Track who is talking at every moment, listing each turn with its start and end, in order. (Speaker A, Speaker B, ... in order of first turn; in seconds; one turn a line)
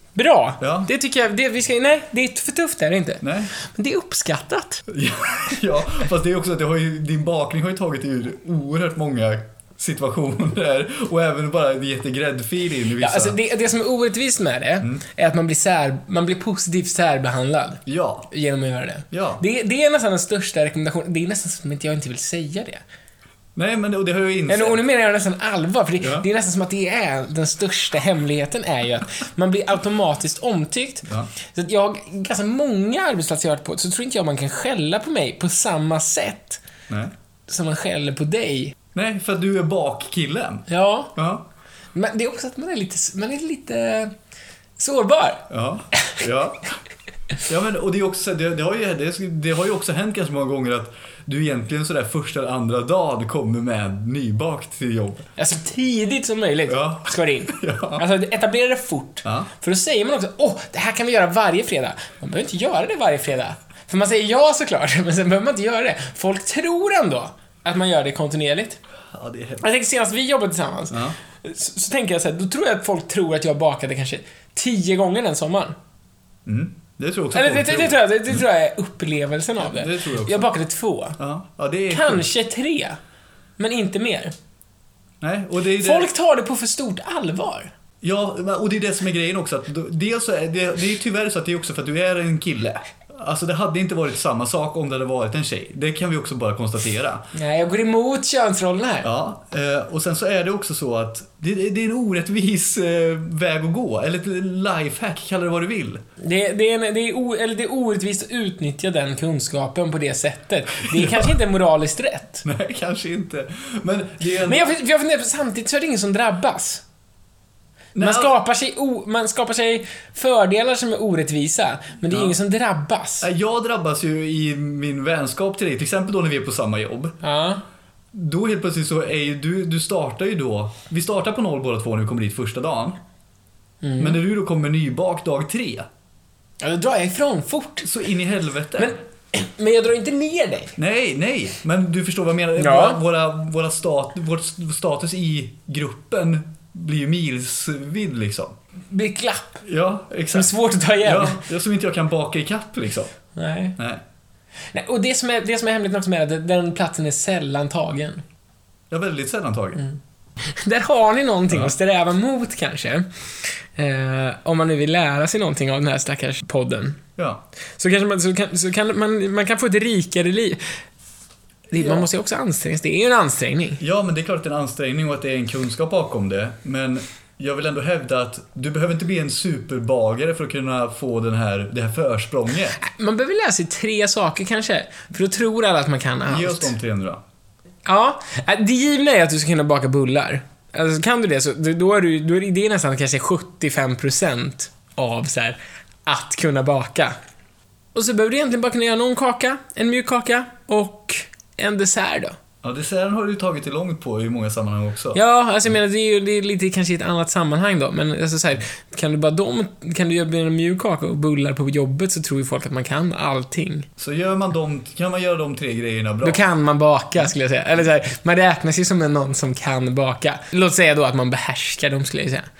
Speaker A: 0.1-4.9
Speaker B: 0.6-0.9
Speaker B: 3.2-3.5
Speaker B: 4.9-13.4
Speaker A: 13.0-22.8
Speaker B: 17.9-18.3
Speaker B: 19.1-19.4
Speaker B: 23.5-24.8
Speaker A: 24.5-36.6
Speaker B: 26.0-26.3
Speaker A: 37.5-38.8
Speaker B: 38.9-41.5
Speaker A: 40.7-41.1
Speaker A: 41.9-44.1
Speaker A: 44.8-45.5
Speaker B: 45.5-46.7
Speaker B: 47.5-55.3
Speaker A: 55.4-68.8
Speaker B: 56.7-58.0
Speaker B: 59.2-59.5
Speaker B: 69.1-69.7
Speaker A: 69.6-75.8
Speaker B: 70.9-71.2
Speaker B: 76.5-78.0
Speaker A: 77.3-81.2
Speaker B: 79.6-80.5
Speaker B: 81.2-82.3
Speaker A: 81.9-83.0
Speaker A: 83.6-84.3
Speaker B: 85.2-86.1
Speaker A: 85.8-87.7
Speaker B: 88.0-97.2
Speaker A: 97.3-99.1
Speaker B: 99.0-106.0
Speaker A: 106.2-112.4
Speaker B: 110.9-111.3
Speaker B: 112.4-114.7
Speaker A: 114.4-116.8
Speaker B: 117.9-118.3
Speaker A: 118.0-123.3
Speaker B: 122.1-122.3
Speaker B: 123.2-127.2
Speaker A: 127.2-127.6
Speaker B: 128.1-133.0
Speaker A: 133.8-134.2
Speaker B: 134.0-135.9
Speaker A: 136.6-137.9
Speaker B: 137.8-138.9
Speaker A: 138.8-140.7
Speaker B: 140.8-148.6
Speaker A: 142.6-143.0
Speaker A: 148.9-149.6
Speaker B: 149.6-153.1
Speaker A: 150.3-151.4
Speaker A: 153.3-153.8
Speaker B: 153.8-154.0
Speaker A: 154.7-158.2
Speaker B: 158.9-159.8
Speaker A: 160.4-167.0
Speaker B: 167.2-167.4
Speaker A: 167.8-170.6
Speaker A: 171.7-173.8
Speaker B: 173.8-182.8
Speaker A: 182.8-186.7
Speaker B: 186.3-187.2
Speaker A: 187.8-197.2
Speaker A: 197.9-202.4
Speaker B: 202.6-205.2
Speaker A: 205.1-213.9
Speaker B: 214.0-216.4
Speaker A: 216.2-222.5